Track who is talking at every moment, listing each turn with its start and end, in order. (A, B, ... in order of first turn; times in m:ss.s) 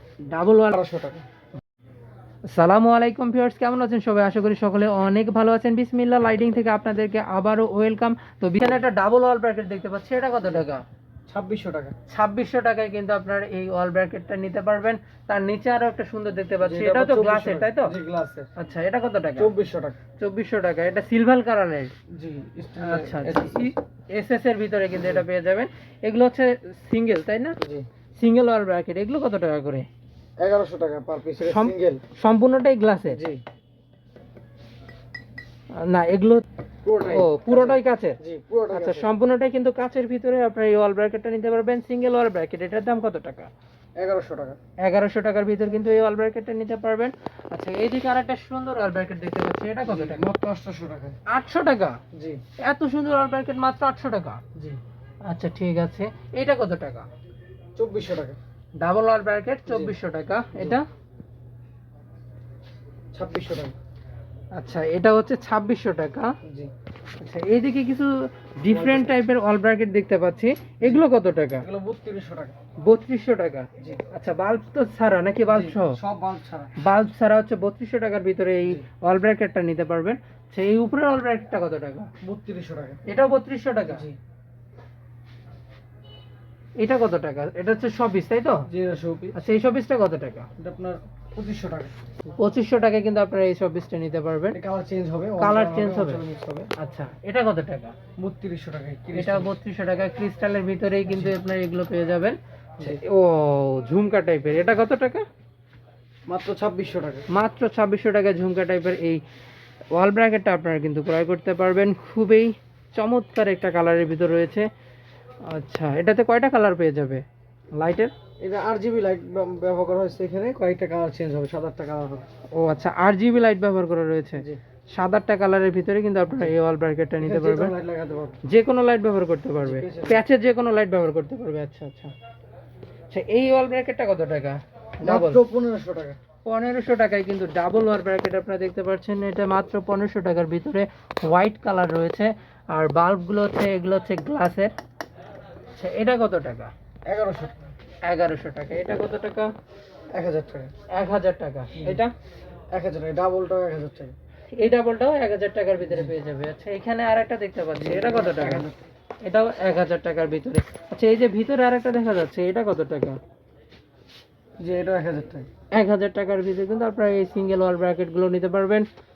0:00.2-0:00.7 A
0:00.7-0:01.2 B
0:02.5-0:10.8 A
0:11.3-0:12.0 B
0:12.1-0:18.0 A
0:16.6-0:18.5 B
0:18.6-0:19.5 A
0:19.4-0:20.0 B
0:20.2-0:21.9 A
0:22.1-0:23.7 B
0:22.8-0:27.6 A
0:27.6-0:27.9 B
0:28.2-0:29.9 A
0:30.4-0:32.0 B
0:31.4-0:33.2 A
0:33.1-0:33.4 B
0:35.8-0:36.4 A
0:36.8-0:39.1 B
0:37.0-0:38.2 A
0:38.7-0:43.5 A
0:44.0-0:44.6 B
0:44.8-0:50.2 A
0:49.8-0:51.2 B
0:51.3-0:52.0 A
0:52.1-0:52.4 B
0:52.6-0:54.4 A
0:55.2-0:57.1 A
0:57.8-0:58.4 B
0:58.8-1:00.9 A
0:59.7-0:59.9 B
1:03.1-1:03.8 B
1:04.6-1:06.3 A
1:06.4-1:06.7 B
1:07.2-1:11.7 A
1:08.6-1:09.1 B
1:11.6-1:12.6 B
1:12.8-1:16.0 A
1:15.5-1:16.7 B
1:16.8-1:22.1 A
1:22.2-1:23.0 B
1:23.1-1:24.1 A
1:23.9-1:24.2 B
1:26.8-1:28.6 A
1:28.7-1:29.4 B
1:29.3-1:30.5 A
1:30.6-1:31.9 B
1:32.4-1:34.6 A
1:34.5-1:36.7 B
1:35.4-1:36.2 A
1:36.8-1:38.0 A
1:38.2-1:39.5 B
1:39.1-1:45.3 A
1:41.1-1:41.4 B
1:46.3-1:47.3 B
1:47.3-1:49.2 A
1:49.9-1:54.7 A
1:55.4-1:57.2 A
1:57.8-1:58.1 A
1:58.4-2:02.3 B
2:02.5-2:07.7 A
2:07.2-2:08.4 B
2:08.5-2:12.1 A
2:09.6-2:10.2 B
2:13.1-2:15.4 A
2:15.0-2:16.2 B
2:16.5-2:24.7 A
2:25.8-2:26.7 A
2:27.1-2:27.6 B
2:28.0-2:29.5 A
2:30.1-2:30.7 B
2:30.9-2:32.1 A
2:31.7-2:32.0 B
2:32.7-2:34.2 B
2:34.5-2:38.7 A
2:35.8-2:36.1 B
2:37.8-2:38.8 B
2:39.2-2:43.2 A
2:44.6-2:45.5 B
2:45.7-2:48.9 A